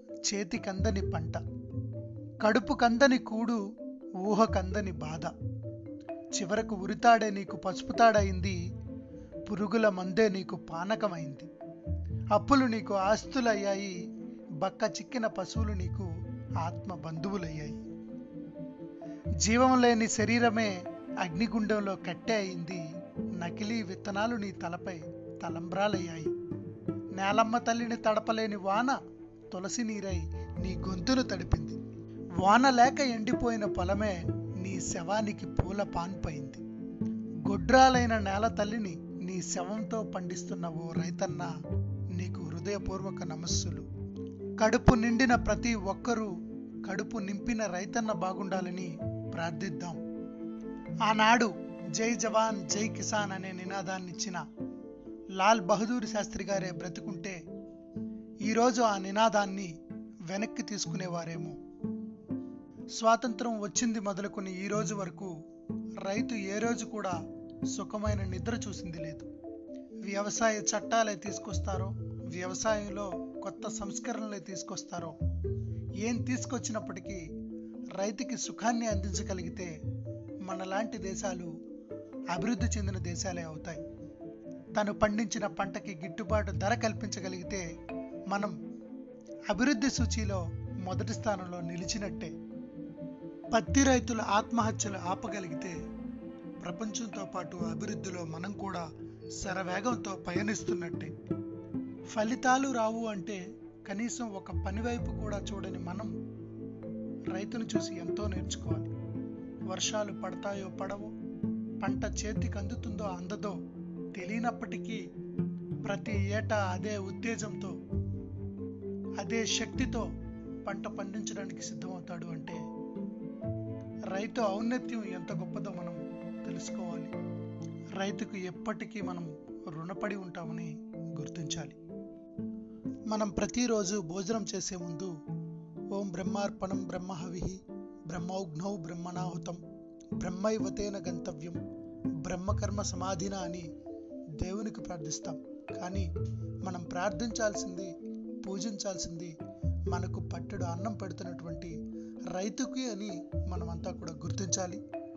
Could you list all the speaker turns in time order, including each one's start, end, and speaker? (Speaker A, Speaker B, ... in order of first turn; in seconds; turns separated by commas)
Speaker A: 0.2-1.4, Speaker A: 2.4-3.6, Speaker A: 4.2-5.3, Speaker A: 6.3-8.6, Speaker A: 9.4-11.5, Speaker A: 12.3-14.0, Speaker A: 14.6-17.8, Speaker A: 19.4-22.8, Speaker A: 23.4-26.3, Speaker A: 27.1-29.0, Speaker A: 29.5-31.8, Speaker A: 32.4-36.6, Speaker A: 37.4-41.5, Speaker A: 42.1-43.9, Speaker A: 44.6-46.3, Speaker A: 46.8-50.0, Speaker A: 51.0-54.4, Speaker A: 55.4-57.4, Speaker A: 58.4-59.7, Speaker A: 60.3-61.6, Speaker A: 62.9-65.3, Speaker A: 66.0-67.2, Speaker A: 67.7-69.3, Speaker A: 70.0-75.1, Speaker A: 76.0-77.2, Speaker A: 77.9-79.7, Speaker A: 80.4-81.5, Speaker A: 82.3-83.8, Speaker A: 84.7-87.6, Speaker A: 88.3-88.6, Speaker A: 89.5-92.3, Speaker A: 93.5-95.8, Speaker A: 96.6-98.8, Speaker A: 99.4-101.1, Speaker A: 102.1-106.1, Speaker A: 107.3-108.9, Speaker A: 109.7-111.1, Speaker A: 111.8-113.6, Speaker A: 114.1-115.0, Speaker A: 115.8-117.8, Speaker A: 119.2-120.1, Speaker A: 120.6-122.6, Speaker A: 124.1-127.1, Speaker A: 128.0-131.8, Speaker A: 133.1-135.1, Speaker A: 135.9-139.6, Speaker A: 140.2-141.6, Speaker A: 142.2-143.7, Speaker A: 144.4-146.1, Speaker A: 146.6-149.3, Speaker A: 149.9-151.8, Speaker A: 152.3-154.8